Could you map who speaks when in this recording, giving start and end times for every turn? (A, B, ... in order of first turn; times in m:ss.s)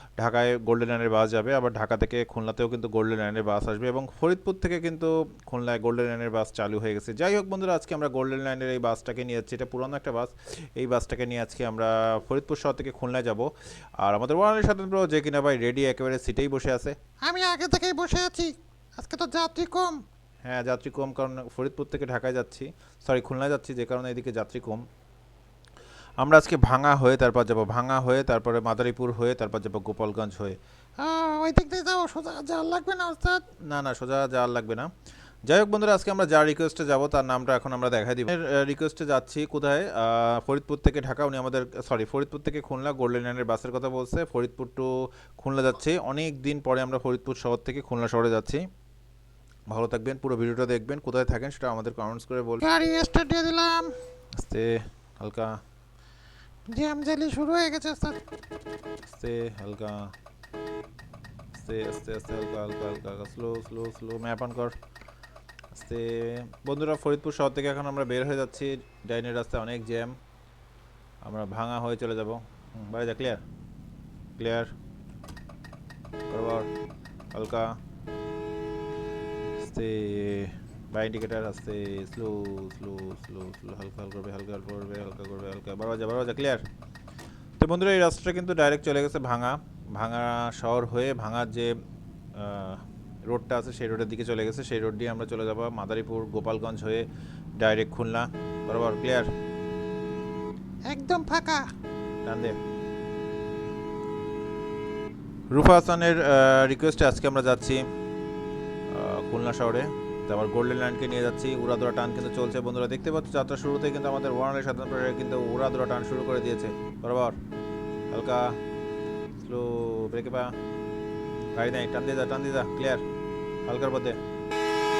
0:00.2-0:17.0 A
0:17.2-0:20.0 B
0:20.4-0:24.8 A
0:26.2-0:30.6 A
0:31.0-0:33.5 B
0:33.5-0:34.9 A
0:35.4-0:48.6 A
0:49.7-0:52.6 A
0:52.6-0:54.0 B
0:54.4-0:55.6 A
0:56.7-0:58.2 B
0:59.0-1:00.1 A
1:01.5-1:04.7 A
1:05.7-1:10.2 A
1:11.2-1:13.4 A
1:14.4-1:14.7 A
1:16.3-1:16.7 A
1:17.3-1:17.7 A
1:19.6-1:26.6 A
1:27.6-1:31.7 A
1:32.3-1:37.0 A
1:37.6-1:39.3 A
1:40.9-1:41.7 B
1:42.2-1:42.6 A
1:45.5-1:47.8 A
1:48.9-1:57.4 A
1:58.1-1:58.6 A
1:59.4-2:00.5 A
2:01.5-2:03.0 A
2:03.7-2:04.2 A